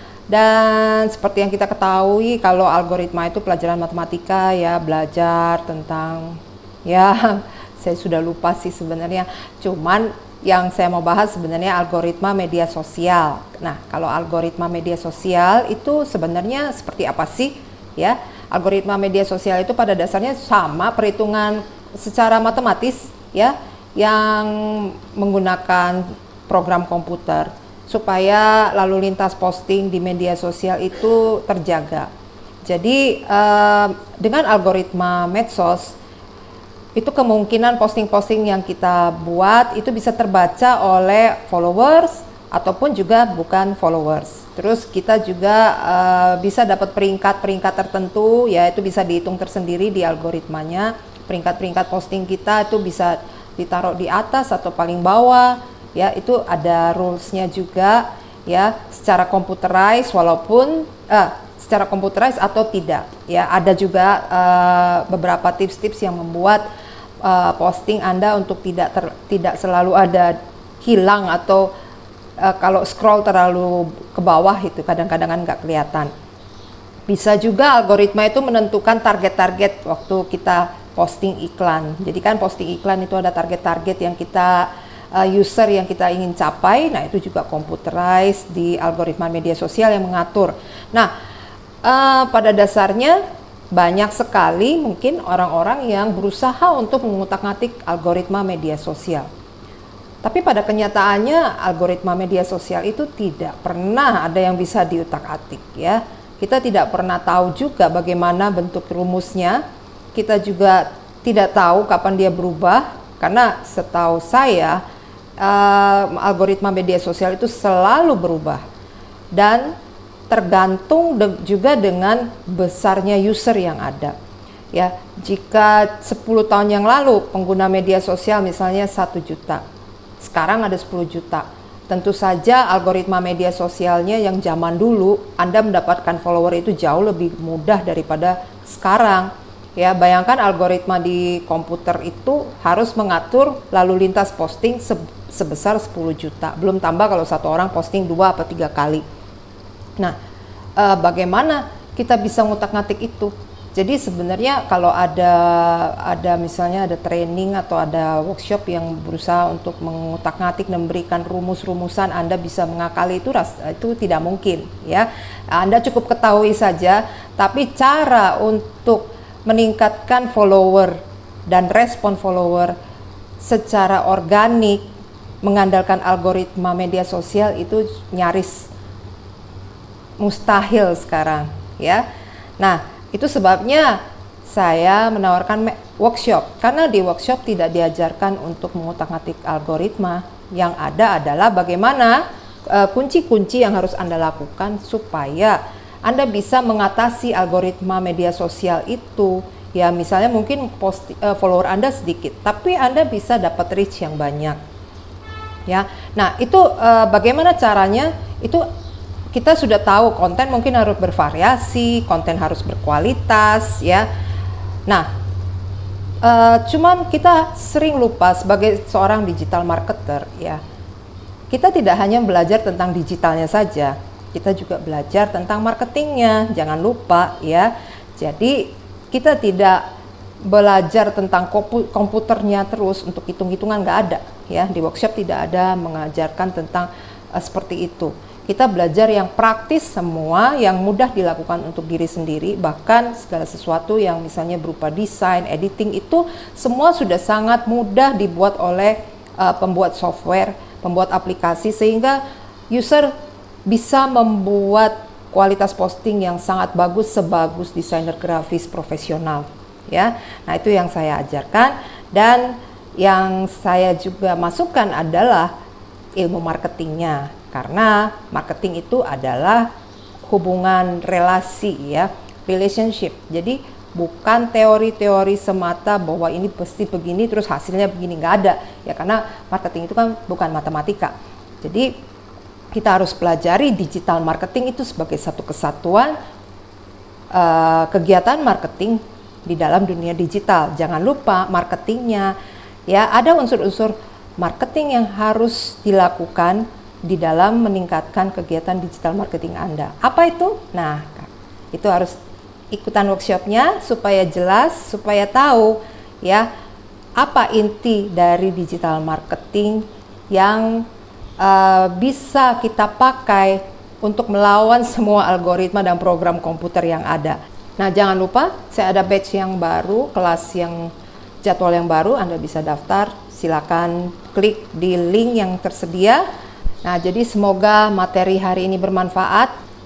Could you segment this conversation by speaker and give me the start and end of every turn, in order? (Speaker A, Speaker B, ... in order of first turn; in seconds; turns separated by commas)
Speaker A: 0.3-32.1, Speaker A: 32.7-36.0, Speaker A: 37.0-66.6, Speaker A: 67.2-71.7, Speaker A: 72.4-76.1, Speaker A: 77.1-91.1, Speaker A: 91.8-93.2, Speaker A: 93.7-99.3, Speaker A: 100.2-109.6, Speaker A: 110.1-114.8, Speaker A: 115.4-118.6, Speaker A: 119.3-119.8, Speaker A: 120.3-124.1, Speaker A: 124.7-129.6, Speaker A: 130.2-149.0, Speaker A: 150.8-172.7, Speaker A: 173.4-174.9, Speaker A: 175.4-178.7, Speaker A: 180.2-182.0, Speaker A: 182.6-204.6, Speaker A: 205.7-208.6, Speaker A: 209.3-214.1, Speaker A: 216.2-220.6, Speaker A: 221.5-229.8, Speaker A: 230.4-252.2, Speaker A: 252.7-253.1, Speaker A: 253.7-265.5, Speaker A: 266.2-269.7, Speaker A: 270.2-281.9, Speaker A: 282.7-286.1, Speaker A: 287.3-292.3, Speaker A: 292.9-302.2, Speaker A: 302.7-306.5, Speaker A: 307.2-310.9, Speaker A: 311.4-320.9, Speaker A: 321.4-326.2, Speaker A: 326.8-329.5